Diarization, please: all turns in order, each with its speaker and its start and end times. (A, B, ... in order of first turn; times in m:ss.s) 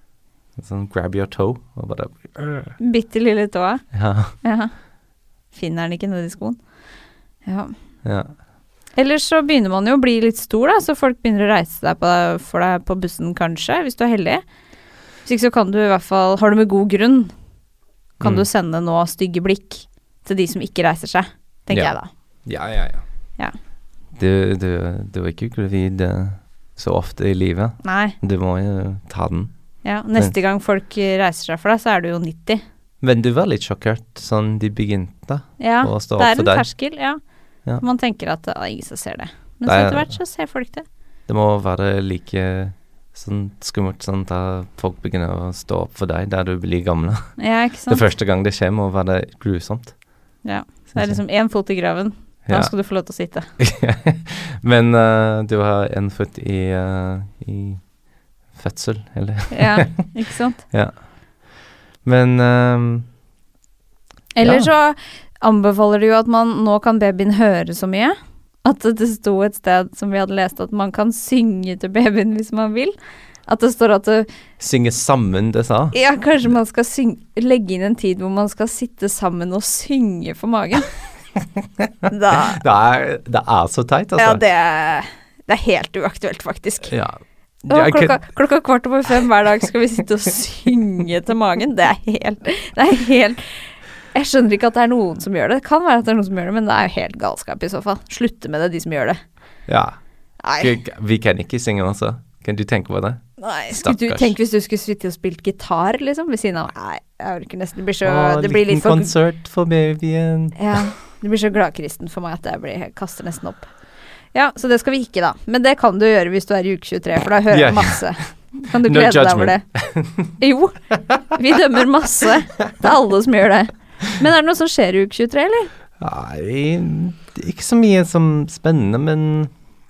0:00.6-0:02.8 A
0:02.8-0:04.7 B
0:03.9-0:04.3 A
0:05.5-0:06.6 B
0:07.4-0:07.7 B
0:08.0-0:08.3 A
0:09.0-0:14.4 B
0:15.2-0:17.3 B
0:18.2-0:18.5 A
0:18.2-0:22.1 B
0:21.7-0:23.0 A
0:24.2-0:29.5 A
0:27.8-0:28.2 B
0:29.8-0:32.6 B
0:33.0-0:36.7 A
0:35.6-0:37.2 B
0:37.8-0:40.8 B
0:39.7-0:40.2 A
0:41.3-0:50.2 A
0:47.4-0:48.0 B
0:50.4-0:53.5 B
0:50.9-0:51.2 A
0:52.5-1:00.1 A
0:59.5-1:00.7 B
1:00.7-1:03.1 A
1:04.4-1:13.0 B
1:04.4-1:04.7 A
1:13.5-1:14.3 B
1:14.6-1:16.6 A
1:15.9-1:20.9 B
1:22.1-1:22.6 B
1:22.3-1:24.4 A
1:24.2-1:26.9 B
1:26.9-1:28.2 A
1:27.7-1:39.2 B
1:39.7-1:40.0 A
1:40.4-1:40.8 B
1:40.6-1:44.3 A
1:43.4-1:49.1 B
1:48.0-1:50.8 A
1:50.6-1:53.7 B
1:54.3-1:59.6 B
1:57.5-1:58.1 A
1:58.8-2:00.3 A
2:00.4-2:05.7 B
2:06.0-2:09.5 A